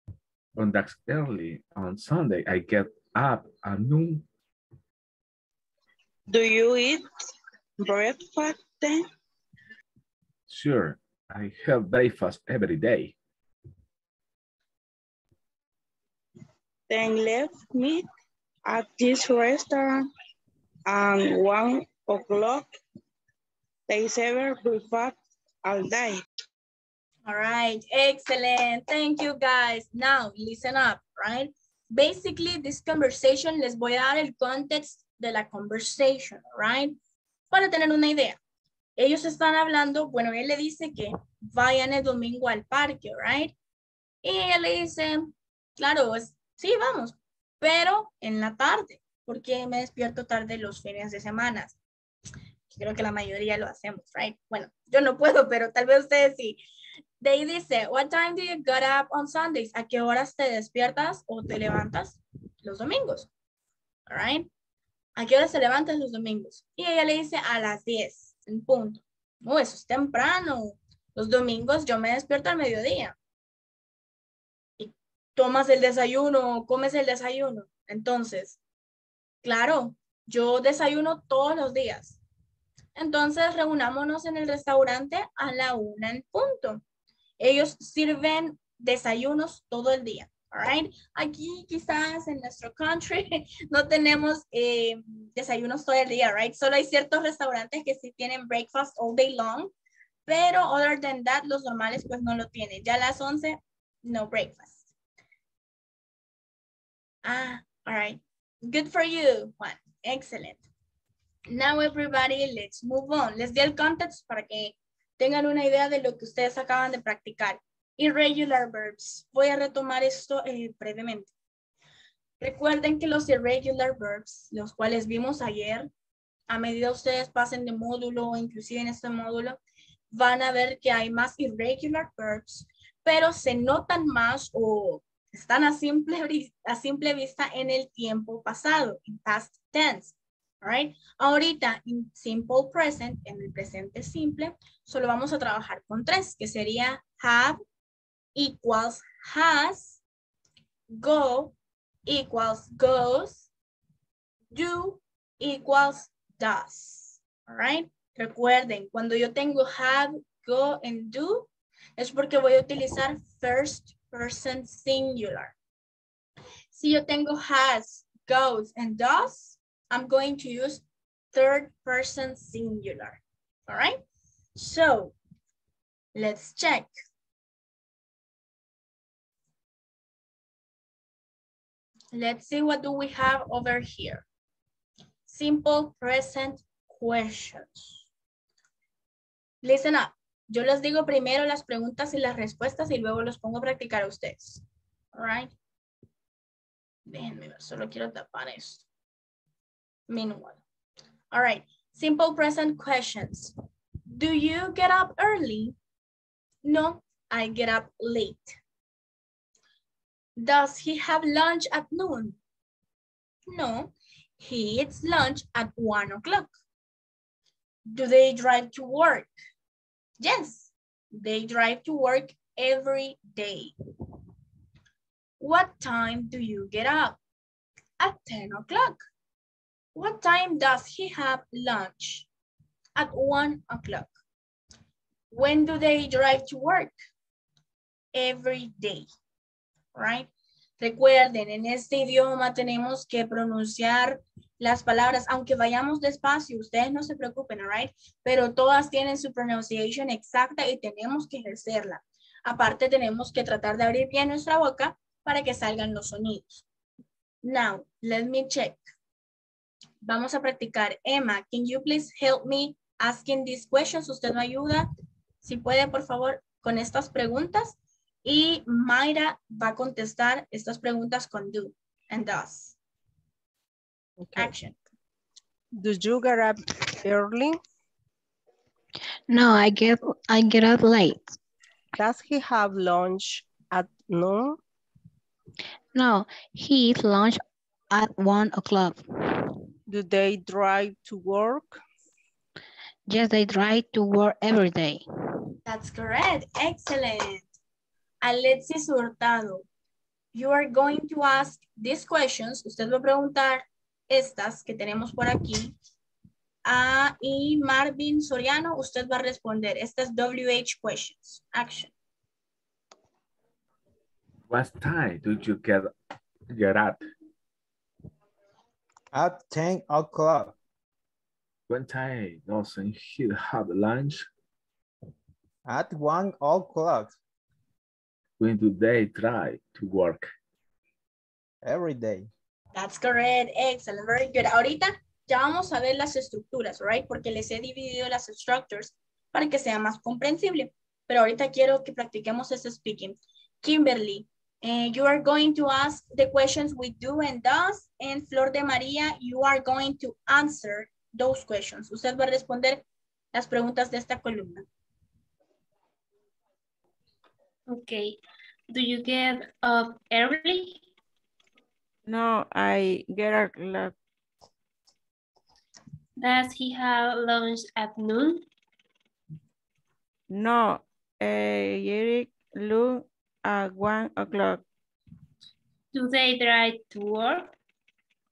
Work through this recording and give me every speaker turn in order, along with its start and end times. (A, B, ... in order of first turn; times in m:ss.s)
0:00.6-0:04.2 A
0:06.3-0:07.1 B
0:07.8-0:09.0 B
0:10.5-0:13.1 A
0:16.9-0:18.0 B
0:18.7-0:20.1 B
0:20.9-0:22.7 B
0:23.9-0:26.2 B
0:27.2-0:37.0 C
0:37.5-0:38.4 C
0:39.0-0:43.5 C
0:44.2-0:51.8 C
0:52.7-0:56.6 C
0:57.2-1:03.3 C
1:04.1-1:04.5 C
1:05.2-1:13.2 C
1:14.8-1:18.6 C
1:19.4-1:22.2 C
1:23.0-1:26.8 C
1:27.4-1:39.7 C
1:40.3-1:44.9 C
1:47.2-1:50.6 C
1:51.5-2:01.3 C
2:02.4-2:05.9 C
2:06.5-2:09.6 C
2:10.1-2:27.6 C
2:28.4-2:30.0 C
2:30.9-2:31.5 C
2:32.1-2:33.5 C
2:34.5-2:45.5 C
2:46.7-2:54.0 C
2:54.6-2:55.1 C
2:56.1-2:56.9 C
3:02.1-3:04.2 C
3:05.3-3:08.1 C
3:09.6-3:14.6 C
3:15.1-3:15.5 C
3:17.1-3:18.8 C
3:20.1-3:20.6 C
3:21.3-3:23.5 C
3:24.1-3:25.7 C
3:26.6-3:28.6 C
3:30.4-3:32.4 C
3:33.5-3:36.5 C
3:37.9-3:39.3 C
3:40.2-3:43.7 C
3:45.4-3:47.2 C
3:48.0-3:49.0 C
3:49.9-3:52.3 C
3:53.0-3:54.1 C
3:55.3-3:56.9 C
3:58.1-3:59.1 C
3:59.9-4:16.6 C
4:17.4-4:18.8 C
4:20.0-4:24.9 C
4:25.4-4:32.8 C
4:34.2-4:34.5 D
4:34.4-4:34.7 C
4:35.8-4:37.6 D
4:39.3-4:41.4 E
4:42.0-4:44.6 D
4:45.9-4:49.5 E
4:49.9-4:51.8 D
4:53.1-4:55.0 E
4:55.6-4:57.5 C
4:58.2-4:59.6 C
5:00.3-5:05.7 C
5:06.6-5:11.9 C
5:14.5-5:15.9 A
5:16.5-5:17.0 A
5:19.1-5:20.5 F
5:21.7-5:24.2 A
5:25.6-5:27.2 F
5:28.4-5:30.3 A
5:31.6-5:32.3 F
5:32.7-5:54.6 C
5:57.7-5:58.2 G
5:58.7-6:00.8 G
6:02.0-6:03.9 H
6:06.2-6:08.4 G
6:10.3-6:14.6 H
6:15.9-6:17.5 G